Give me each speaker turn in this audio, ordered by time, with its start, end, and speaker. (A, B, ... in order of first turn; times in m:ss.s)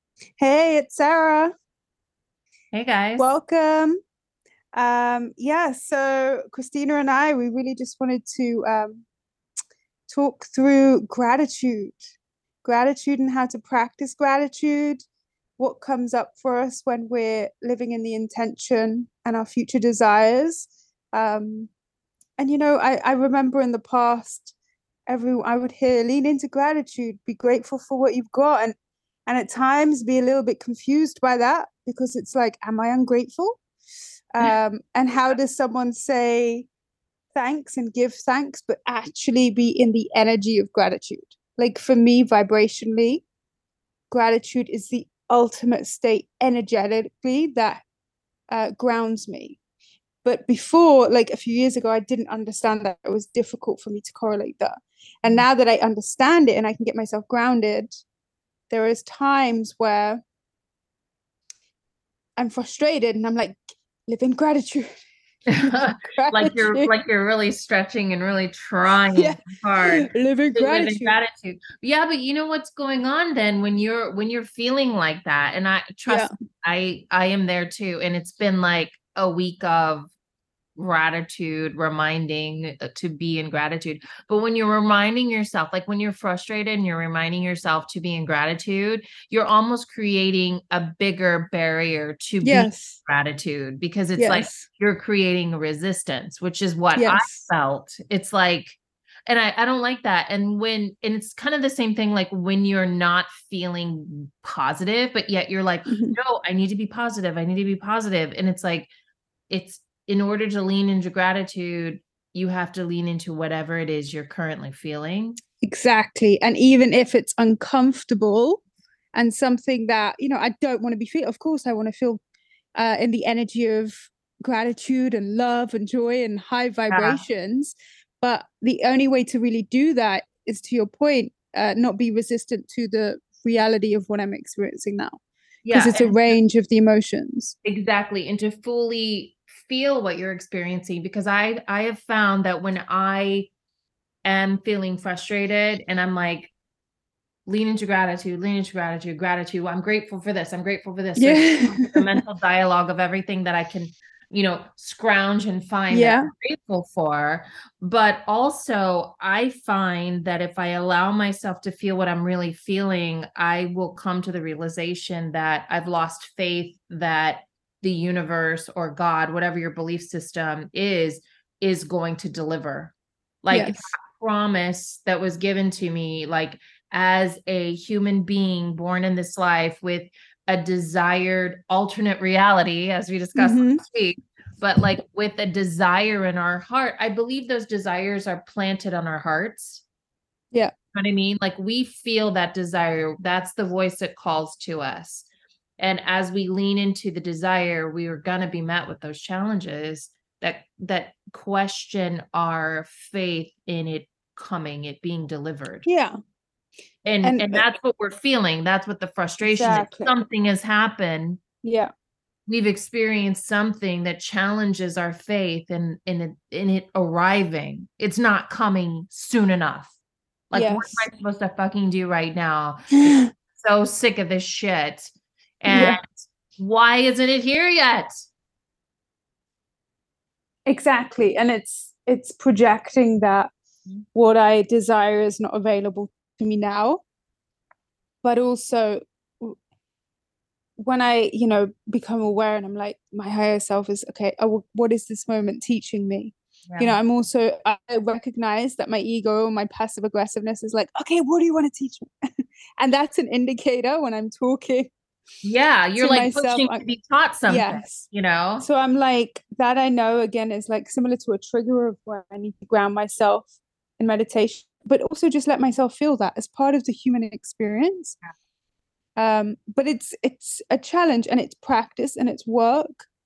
0:00.4-0:01.5 A
0:02.7-0:03.3 B
0:03.2-0:04.0 A
0:04.7-0:09.0 A
0:10.1-0:15.0 A
0:15.6-0:21.7 A
0:22.4-0:24.6 A
0:25.1-0:28.8 A
0:29.3-0:33.6 A
0:34.3-0:36.7 A
0:37.3-0:43.2 A
0:44.1-0:47.8 A
0:48.5-0:49.6 A
0:50.2-0:58.0 A
0:58.7-1:00.2 A
1:02.4-1:04.9 A
1:05.5-1:20.1 B
1:05.6-1:06.9 A
1:09.1-1:11.2 A
1:20.8-1:48.9 B
1:32.4-1:33.0 A
1:34.2-1:34.7 A
1:37.0-1:37.4 A
1:45.9-1:46.2 A
1:49.5-1:55.4 B
1:55.6-1:58.6 A
1:59.1-2:02.2 A
2:02.8-2:15.2 A
2:06.9-2:07.2 B
2:15.6-2:16.3 B
2:15.7-2:17.6 A
2:17.6-2:23.5 B
2:24.2-2:26.5 B
2:27.5-3:09.8 B
2:31.2-2:32.2 A
2:35.9-2:36.3 A
2:53.5-2:53.9 A
3:03.4-3:03.8 A
3:10.9-3:15.2 B
3:15.8-3:25.9 B
3:25.8-3:26.1 A
3:27.0-3:31.4 B
3:27.2-3:27.6 A
3:29.4-3:30.1 A
3:31.6-3:31.9 A
3:32.5-3:40.0 B
3:40.5-3:43.0 B
3:40.5-3:41.0 A
3:43.0-3:43.3 A
3:43.5-3:48.2 B
3:45.7-3:46.0 A
3:50.7-3:53.5 A
3:54.1-3:57.0 A
3:58.2-3:59.6 A
4:00.8-4:14.9 A
4:06.7-4:07.0 B
4:15.4-4:18.7 B
4:16.0-4:16.8 A
4:17.5-4:18.1 A
4:18.6-4:28.2 A
4:29.2-4:33.1 A